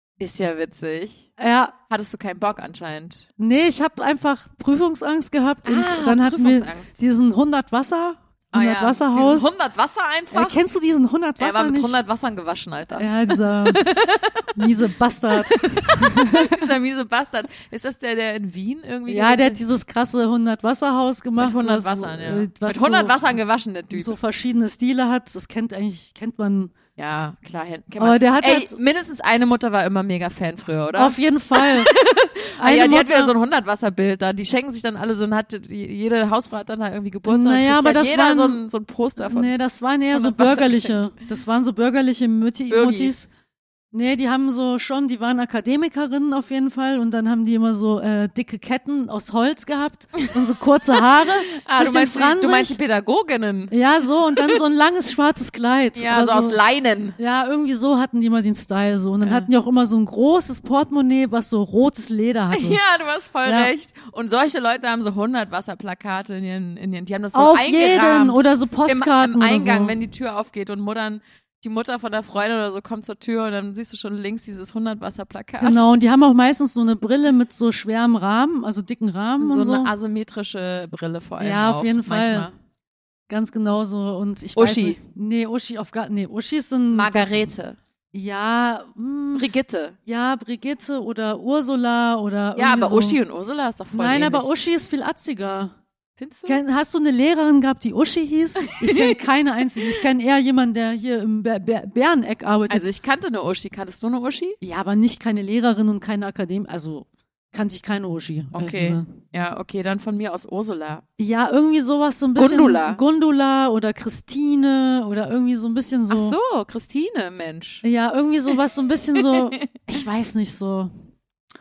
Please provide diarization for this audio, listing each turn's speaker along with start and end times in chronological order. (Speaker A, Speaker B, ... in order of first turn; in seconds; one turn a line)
Speaker A: 0.2-1.3
Speaker B: 1.4-1.7
Speaker A: 1.9-3.3
Speaker B: 3.4-9.5
Speaker A: 5.7-7.0
Speaker A: 8.5-10.6
Speaker B: 10.3-12.0
Speaker A: 11.4-19.6
Speaker B: 12.9-13.9
Speaker B: 14.6-16.7
Speaker B: 19.1-23.3
Speaker A: 21.4-24.1
Speaker B: 23.9-26.7
Speaker A: 27.0-39.5
Speaker B: 28.0-28.8
Speaker B: 31.0-31.9
Speaker B: 32.6-33.3
Speaker B: 37.3-38.6
Speaker B: 39.2-43.3
Speaker A: 40.1-41.2
Speaker A: 42.7-43.2
Speaker B: 43.9-52.8
Speaker A: 51.5-53.7
Speaker B: 53.7-56.6
Speaker A: 56.0-57.2
Speaker B: 57.2-62.8
Speaker A: 59.2-59.5
Speaker A: 62.5-75.9
Speaker B: 63.5-63.7
Speaker B: 67.3-70.0
Speaker B: 75.6-79.9
Speaker A: 79.4-82.5
Speaker B: 81.4-82.5
Speaker B: 83.3-87.5
Speaker A: 84.6-85.0
Speaker A: 86.9-87.8
Speaker B: 88.1-89.5
Speaker A: 89.3-90.0
Speaker B: 90.1-93.2
Speaker A: 92.5-94.5
Speaker B: 93.9-95.8
Speaker A: 96.2-96.6
Speaker B: 96.5-102.9
Speaker A: 98.8-99.2
Speaker A: 102.7-104.6
Speaker B: 104.6-109.1
Speaker A: 108.5-111.0
Speaker B: 111.2-116.4
Speaker A: 112.4-113.0
Speaker A: 116.1-117.8
Speaker B: 117.8-120.9
Speaker A: 119.1-119.7